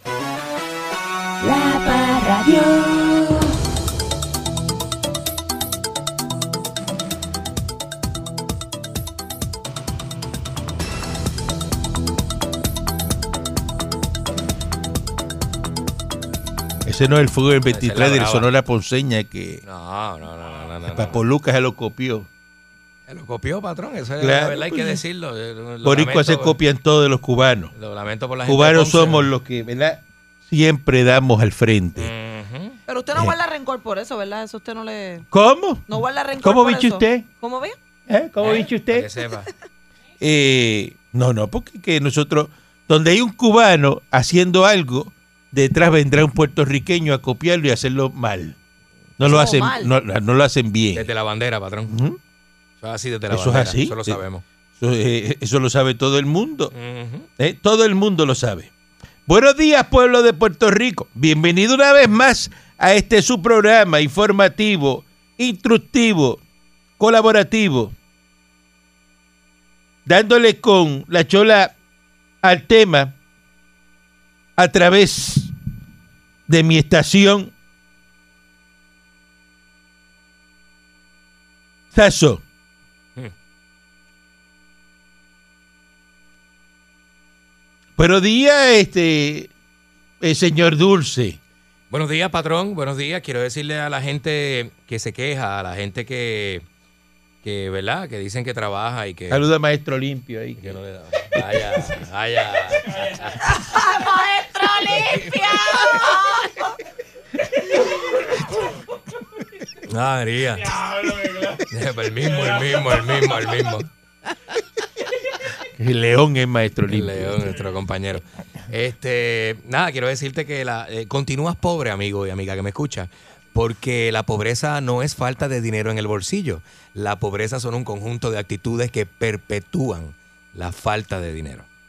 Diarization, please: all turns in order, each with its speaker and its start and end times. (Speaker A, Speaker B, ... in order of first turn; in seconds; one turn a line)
Speaker A: 1.4-3.5
Speaker B: 16.9-19.6
Speaker C: 17.7-18.5
Speaker C: 19.6-21.2
Speaker B: 20.9-22.3
Speaker C: 23.1-26.6
Speaker B: 24.2-25.0
Speaker B: 25.8-27.7
Speaker C: 27.8-29.3
Speaker B: 28.4-32.1
Speaker C: 32.0-32.8
Speaker D: 32.9-35.3
Speaker B: 35.3-37.2
Speaker D: 35.9-37.8
Speaker B: 38.1-39.1
Speaker C: 38.4-39.5
Speaker B: 40.2-48.6
Speaker B: 49.2-51.1
Speaker D: 49.2-49.9
Speaker C: 50.9-51.9
Speaker B: 51.9-52.2
Speaker C: 52.8-54.4
Speaker B: 53.3-54.2
Speaker B: 54.8-56.7
Speaker C: 56.7-57.3
Speaker B: 57.4-58.7
Speaker B: 59.3-66.4
Speaker B: 67.0-67.9
Speaker B: 70.1-71.7
Speaker B: 72.4-73.1
Speaker B: 74.6-75.5
Speaker B: 76.5-77.5
Speaker B: 81.9-82.4
Speaker B: 88.0-89.5
Speaker B: 90.2-91.4
Speaker C: 91.9-96.7
Speaker C: 97.4-99.4
Speaker B: 99.3-100.8
Speaker C: 100.6-103.6
Speaker B: 101.3-101.9
Speaker D: 103.5-106.8
Speaker C: 104.9-106.1
Speaker C: 109.9-113.9
Speaker B: 115.8-117.5
Speaker C: 116.9-131.7